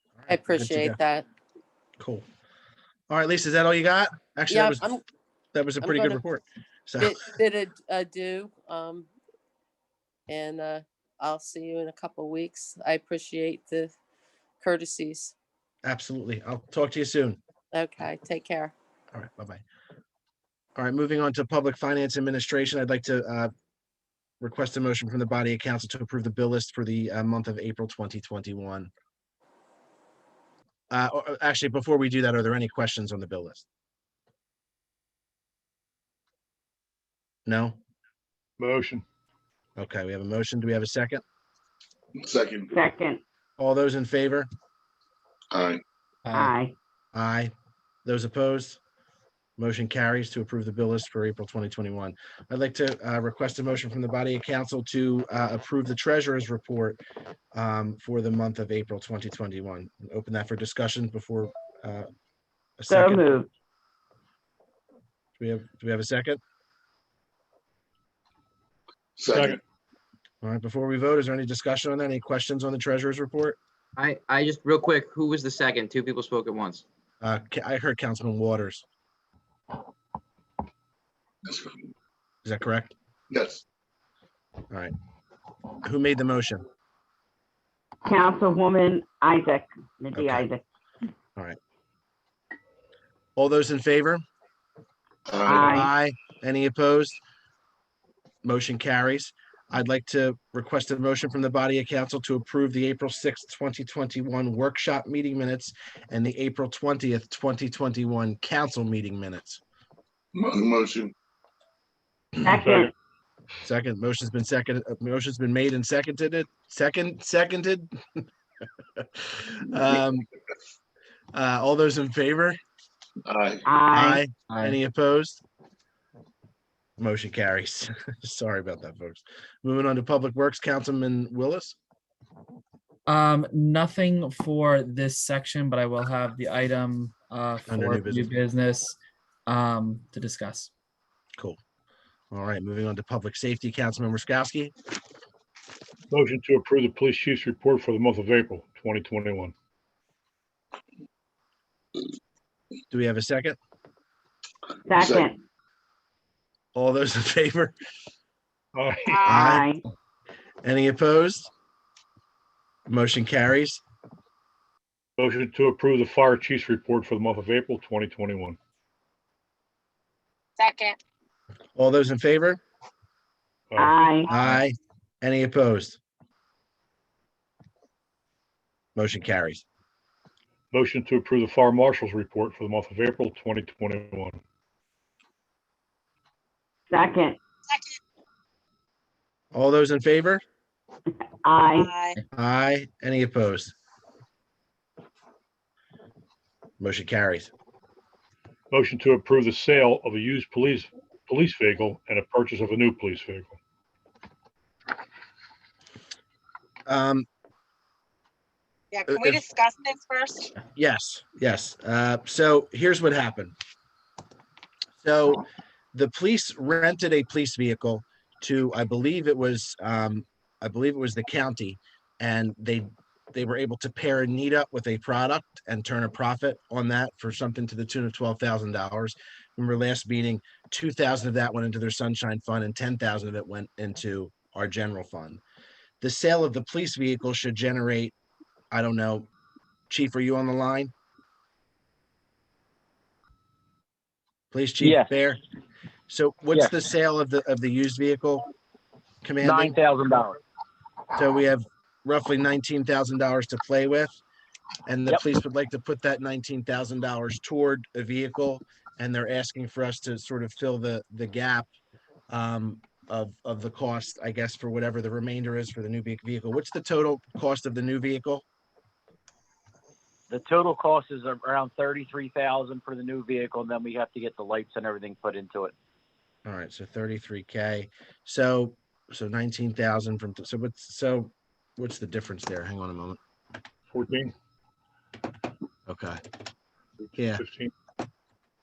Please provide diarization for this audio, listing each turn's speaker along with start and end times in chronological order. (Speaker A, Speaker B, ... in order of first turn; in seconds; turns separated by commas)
Speaker A: 0.2-1.0, Speaker B: 0.3-1.3, Speaker A: 2.0-2.2, Speaker A: 3.1-5.0, Speaker B: 4.5-5.0, Speaker A: 5.5-7.1, Speaker B: 5.8-6.2, Speaker B: 7.0-9.1, Speaker B: 10.3-13.9, Speaker B: 14.6-15.3, Speaker A: 15.8-17.4, Speaker B: 17.7-18.7, Speaker A: 19.1-19.6, Speaker A: 20.8-23.5, Speaker A: 24.4-28.9, Speaker A: 30.9-33.6, Speaker A: 37.5-37.8, Speaker C: 38.6-39.0, Speaker A: 39.8-41.2, Speaker D: 42.2-42.7, Speaker E: 42.7-43.2, Speaker A: 43.6-44.5, Speaker D: 45.5-45.8, Speaker F: 46.2-46.6, Speaker E: 46.3-46.7, Speaker A: 47.1-47.5, Speaker A: 48.0-48.8, Speaker A: 49.6-57.0, Speaker A: 57.5-62.1, Speaker A: 62.8-63.3, Speaker E: 62.9-63.5, Speaker A: 65.4-66.4, Speaker D: 69.2-69.6, Speaker C: 69.3-69.6, Speaker A: 70.4-73.6, Speaker G: 74.0-76.8, Speaker A: 77.2-78.8, Speaker D: 81.5-81.8, Speaker A: 82.4-82.9, Speaker D: 83.3-83.6, Speaker A: 85.8-86.6, Speaker E: 88.0-90.6, Speaker A: 90.1-90.5, Speaker A: 93.3-94.2, Speaker D: 95.3-95.9, Speaker E: 95.5-95.9, Speaker A: 95.5-97.2, Speaker A: 98.4-109.6, Speaker D: 110.3-111.1, Speaker E: 112.4-112.9, Speaker C: 112.5-112.9, Speaker A: 113.6-118.2, Speaker A: 119.0-120.2, Speaker A: 121.3-122.6, Speaker D: 123.2-123.7, Speaker E: 123.6-124.2, Speaker A: 123.9-125.4, Speaker F: 124.5-124.8, Speaker A: 127.0-131.8, Speaker F: 133.1-140.7, Speaker A: 137.7-138.3, Speaker A: 142.3-144.7, Speaker C: 146.1-149.5, Speaker A: 152.9-153.6, Speaker E: 154.9-155.4, Speaker D: 154.9-155.3, Speaker A: 156.7-157.7, Speaker C: 158.7-159.3, Speaker E: 159.2-159.8, Speaker A: 159.2-159.7, Speaker A: 160.6-161.5, Speaker A: 162.9-163.8, Speaker C: 165.2-168.6, Speaker H: 170.6-171.0, Speaker A: 171.8-172.6, Speaker C: 173.7-174.0, Speaker E: 173.8-174.3, Speaker A: 174.3-176.0, Speaker A: 178.9-179.6, Speaker C: 180.7-184.4, Speaker E: 186.9-187.4, Speaker A: 189.5-190.4, Speaker E: 191.4-191.9, Speaker H: 191.8-192.1, Speaker A: 192.3-193.7, Speaker A: 196.8-197.5, Speaker C: 198.7-203.6, Speaker A: 206.8-207.3, Speaker H: 208.9-210.5, Speaker A: 209.1-209.4, Speaker A: 210.7-213.5, Speaker A: 215.0-235.4, Speaker A: 236.0-238.2, Speaker A: 238.7-239.3, Speaker A: 239.9-240.9, Speaker A: 244.5-245.4, Speaker I: 244.8-245.1, Speaker A: 246.1-248.5, Speaker A: 249.2-249.7, Speaker I: 249.4-250.4, Speaker A: 251.2-254.1, Speaker A: 254.8-261.7, Speaker A: 262.3-268.4, Speaker I: 270.3-275.7, Speaker A: 276.4-283.2, Speaker C: 283.9-284.3, Speaker A: 285.9-286.2, Speaker C: 287.1-287.7, Speaker A: 287.1-287.4